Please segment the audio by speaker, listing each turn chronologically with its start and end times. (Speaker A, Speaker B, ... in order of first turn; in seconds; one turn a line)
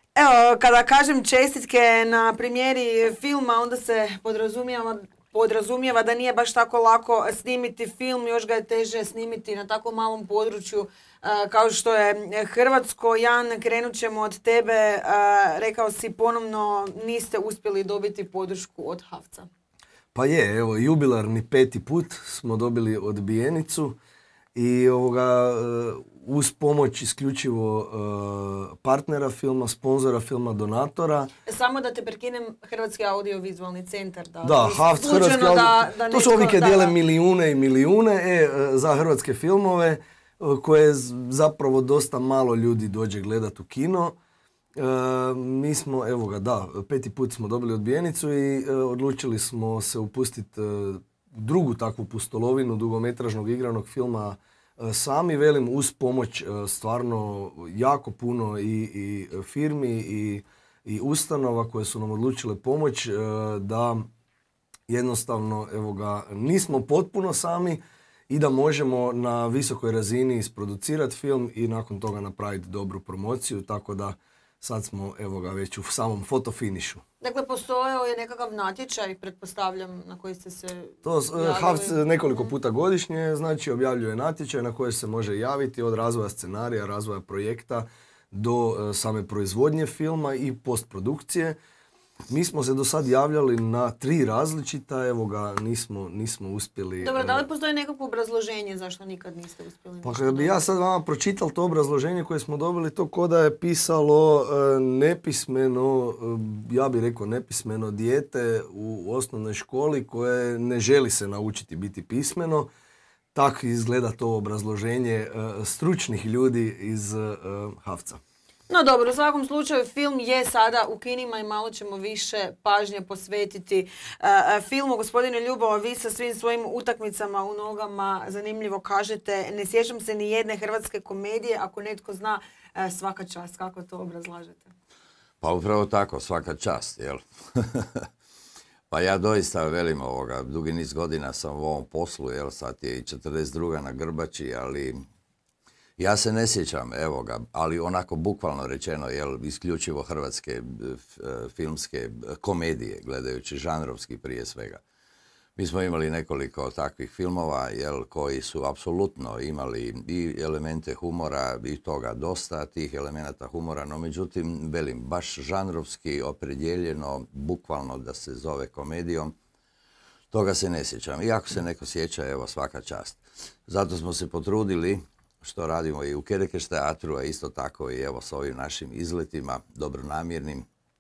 Speaker A: 0.2-19.5
Speaker B: 20.1-24.0
Speaker B: 24.6-31.3
Speaker A: 31.4-36.9
Speaker B: 34.4-44.2
Speaker B: 44.7-64.1
Speaker B: 64.9-77.0
Speaker A: 77.2-82.5
Speaker B: 81.0-91.6
Speaker B: 92.3-97.4
Speaker A: 97.0-100.6
Speaker B: 100.0-112.7
Speaker B: 113.3-118.2
Speaker A: 118.7-134.7
Speaker C: 135.4-138.1
Speaker C: 138.9-145.0
Speaker C: 146.0-154.8
Speaker C: 155.6-169.3
Speaker C: 170.3-180.7